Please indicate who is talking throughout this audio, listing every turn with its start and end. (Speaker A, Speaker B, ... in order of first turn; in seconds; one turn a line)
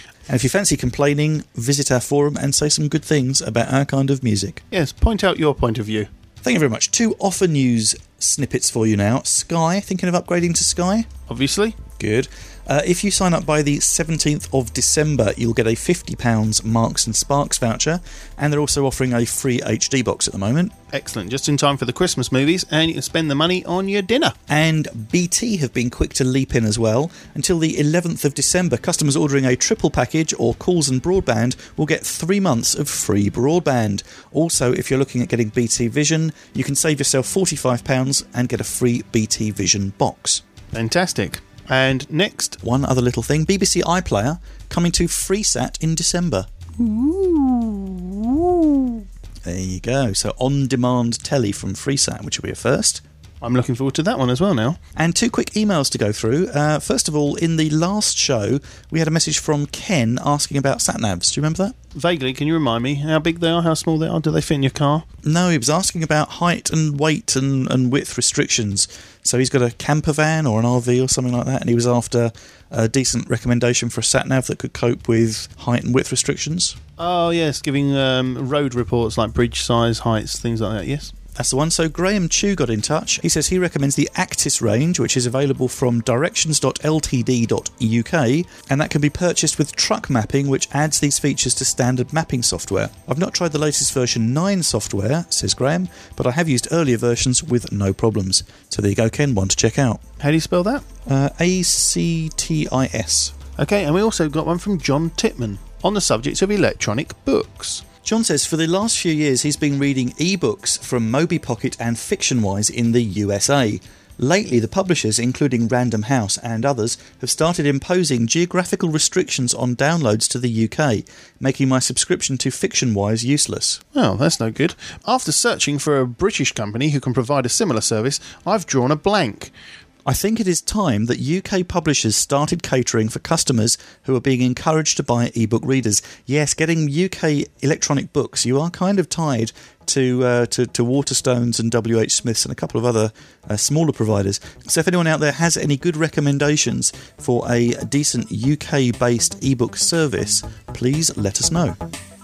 Speaker A: 0.3-4.6
Speaker B: 4.7-6.1
Speaker A: 6.4-11.1
Speaker B: 11.3-11.8
Speaker A: 12.0-20.7
Speaker B: 20.9-24.4
Speaker A: 24.5-40.4
Speaker B: 40.7-42.6
Speaker A: 42.6-46.5
Speaker B: 46.8-49.0
Speaker A: 49.4-53.0
Speaker B: 53.4-54.8
Speaker A: 55.0-61.7
Speaker B: 61.9-65.0
Speaker A: 65.2-76.8
Speaker B: 77.0-81.1
Speaker A: 81.3-100.0
Speaker B: 100.2-100.8
Speaker A: 101.0-103.3
Speaker B: 103.6-107.8
Speaker A: 108.0-123.8
Speaker B: 123.9-129.5
Speaker A: 130.0-151.8